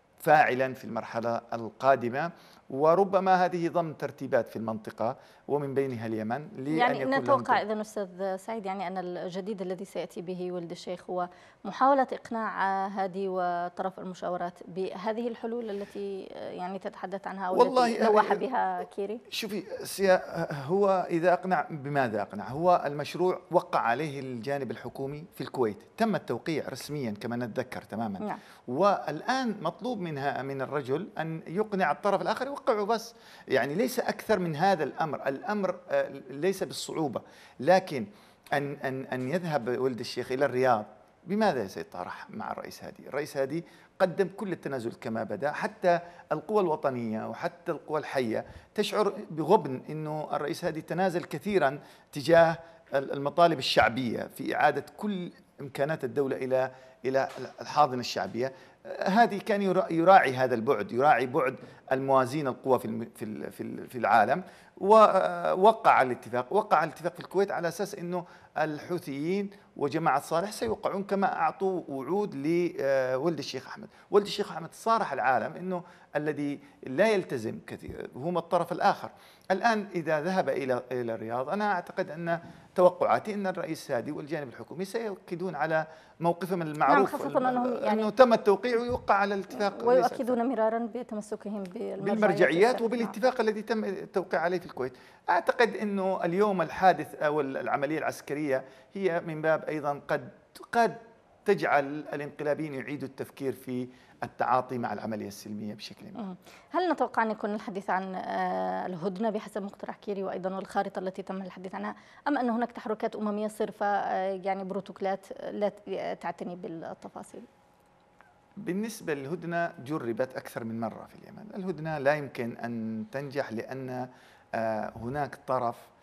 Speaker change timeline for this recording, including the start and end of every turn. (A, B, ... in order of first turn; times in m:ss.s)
0:00.2-0:07.6 A
0:06.7-0:19.2 B
0:17.5-0:18.4 A
0:19.3-1:30.3 A
1:26.9-1:28.1 B
1:29.5-1:33.1 B
1:32.0-1:46.2 A
1:46.2-1:57.5 B
1:58.6-2:05.8 A